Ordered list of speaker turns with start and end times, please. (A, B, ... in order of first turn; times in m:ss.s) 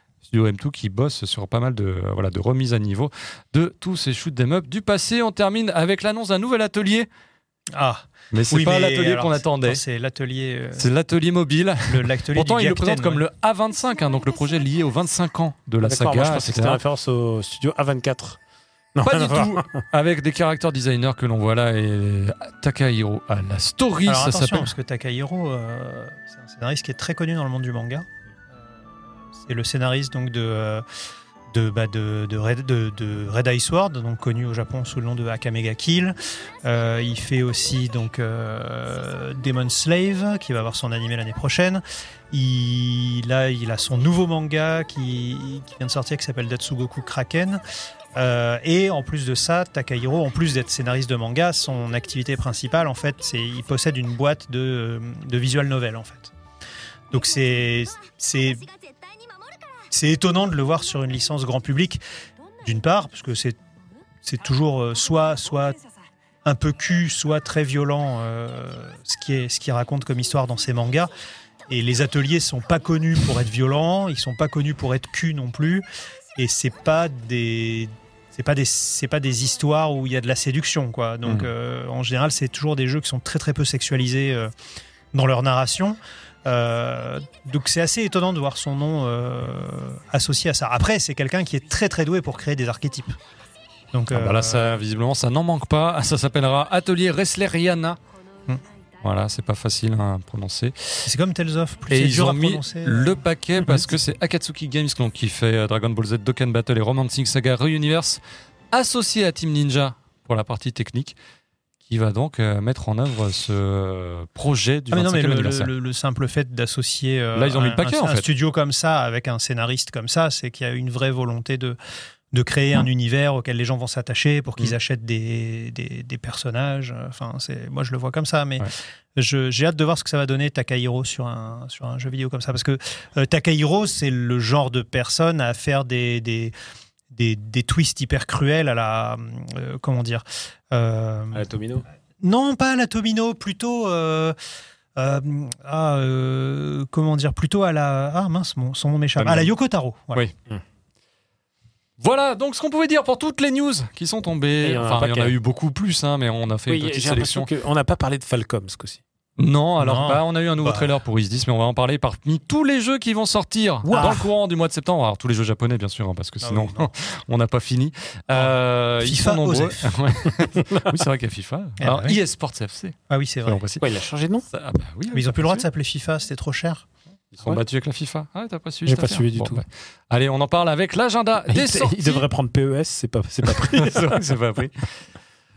0:00.2-0:07.1 A
0:07.7-0:10.8 B
0:08.3-0:09.8 A
0:10.8-0:16.8 A
0:11.9-0:13.2 B
0:15.8-0:18.4 C
0:18.9-0:19.8 C
0:19.0-0:24.7 A
0:24.0-0:28.1 B
0:29.3-0:30.8 B
0:31.5-0:47.6 B
0:48.1-0:56.3 B
0:57.1-0:58.7 B
0:59.9-1:02.0 B
1:02.6-1:03.6 B
1:04.2-1:05.8 B
1:06.4-1:11.1 B
1:11.7-1:15.8 B
1:16.4-1:24.5 B
1:25.1-1:33.2 B
1:33.9-1:34.8 B
1:34.1-1:38.0 A
1:39.0-1:41.1 A
1:41.0-1:43.9 B
1:41.9-1:48.2 A
1:48.7-1:51.2 A
1:51.8-1:55.7 A
1:54.9-2:01.8 B
1:57.3-1:58.3 A
2:02.3-2:16.5 B
2:17.1-2:21.4 B
2:21.3-2:21.8 C
2:22.2-2:24.4 B
2:25.0-2:30.2 B
2:29.2-2:29.5 A
2:32.0-2:37.5 A
2:34.6-2:35.3 C
2:36.7-2:39.0 C
2:39.4-2:53.9 A
2:39.8-2:40.9 B
2:43.8-2:44.3 B
2:46.4-2:46.9 B
2:48.3-2:49.9 B
2:50.6-2:50.9 C
2:51.8-2:52.2 B
2:53.1-2:53.6 B
2:53.8-2:54.4 C
2:54.5-2:55.6 A
2:55.1-2:56.8 B
2:57.3-3:02.2 A
2:58.8-2:59.6 C
3:01.5-3:04.4 C
3:03.4-3:04.8 A